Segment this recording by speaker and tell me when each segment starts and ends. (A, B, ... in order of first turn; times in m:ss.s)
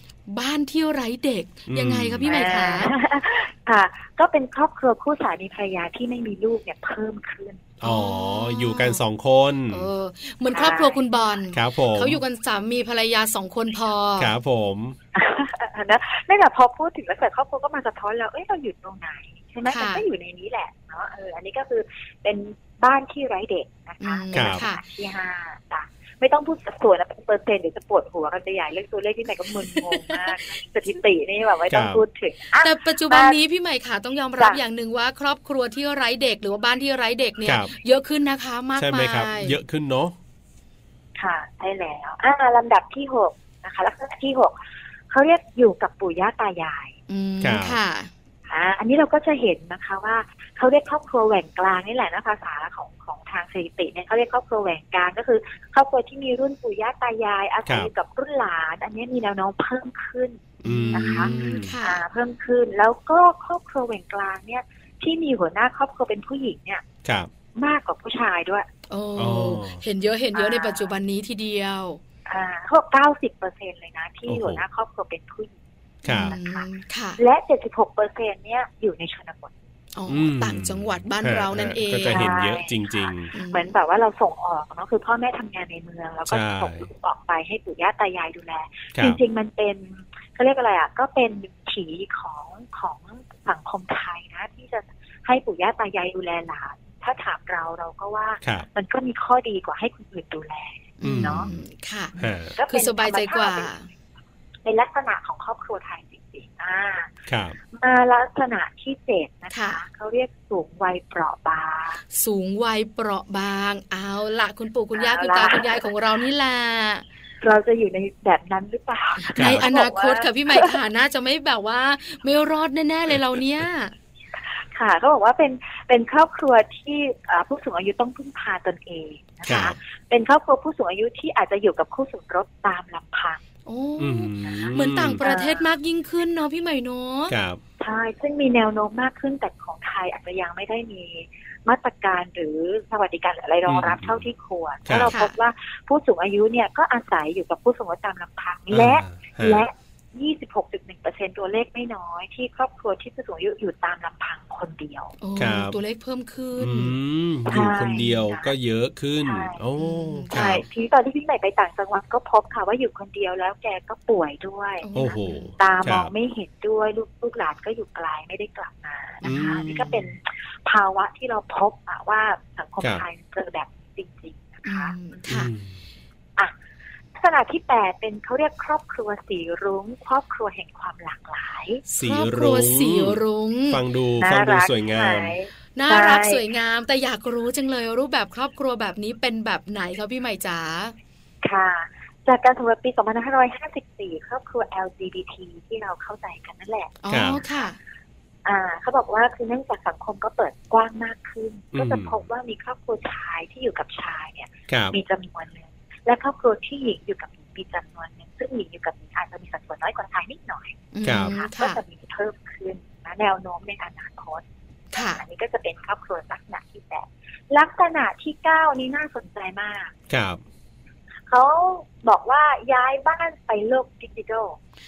0:00.3-0:02.9 A
0:01.7-0:02.3 B
0:02.3-0:07.6 C
0:07.8-0:09.9 B
0:07.8-0:09.0 A
0:09.7-0:14.3 A
0:10.5-0:11.0 C
0:11.5-0:12.2 B
0:14.2-0:15.0 B
0:15.1-0:33.4 C
0:19.7-0:20.0 A
0:24.0-0:24.8 A
0:24.3-0:24.6 B
0:31.7-0:32.0 B
0:32.6-0:39.6 A
0:37.4-0:37.7 B
0:38.8-0:40.2 B
0:41.2-0:44.6 C
0:45.1-0:47.0 C
0:47.1-0:48.1 A
0:47.4-0:47.8 B
0:48.5-1:01.3 C
1:00.6-1:01.7 B
1:00.6-1:02.0 A
1:01.8-1:06.8 C
1:07.0-1:07.3 B
1:07.6-1:08.7 C
1:08.9-1:12.0 A
1:09.2-1:09.8 B
1:10.3-1:10.9 C
1:12.2-1:15.6 C
1:14.3-1:14.6 B
1:16.0-1:16.3 B
1:16.0-1:17.2 A
1:16.1-1:19.5 C
1:19.9-1:22.3 A
1:20.1-1:23.3 B
1:22.1-1:41.5 C
1:23.3-1:23.7 A
1:26.3-1:26.8 B
1:28.9-1:29.2 B
1:38.4-1:38.7 B
1:41.0-1:42.1 A
1:41.0-1:41.6 B
1:42.2-1:43.7 C
1:42.2-1:42.5 B
1:42.7-1:43.8 A
1:44.6-1:47.1 C
1:47.3-1:47.6 B
1:47.7-1:52.0 C
1:49.5-1:49.8 A
1:52.1-1:57.0 A
1:54.9-1:55.8 C
1:57.4-2:00.8 C
1:59.2-2:03.9 A
1:59.3-1:59.6 B
2:04.6-2:13.4 C
2:09.4-2:09.7 B
2:13.6-2:17.3 A
2:14.0-2:15.2 B
2:15.2-2:15.7 C
2:17.3-2:17.6 B
2:17.8-2:35.1 C
2:23.7-2:24.2 B
2:24.9-2:25.1 B
2:25.1-2:25.3 A
2:28.7-2:29.6 B
2:35.2-2:37.0 A
2:35.4-2:35.8 B
2:36.6-2:40.6 B
2:37.5-2:38.5 C
2:39.2-2:39.6 C
2:39.8-2:40.6 A
2:40.3-2:44.9 C
2:44.8-2:45.5 A
2:44.9-2:46.1 B
2:45.6-2:54.9 C
2:49.2-2:49.7 A
2:49.2-2:50.0 B
2:54.6-2:55.5 A
2:55.3-2:55.7 B
2:57.1-3:01.8 C
3:01.9-3:03.8 A
3:02.0-3:05.4 B
3:04.2-3:06.4 C
3:05.8-3:10.9 A
3:11.4-3:17.7 C
3:17.0-3:17.8 A
3:17.1-3:17.4 B
3:18.4-3:39.9 C
3:21.7-3:22.2 B
3:24.7-3:25.0 B
3:30.9-3:31.8 A
3:31.0-3:31.3 B
3:34.9-3:35.2 A
3:40.1-3:40.4 B
3:41.3-3:44.6 C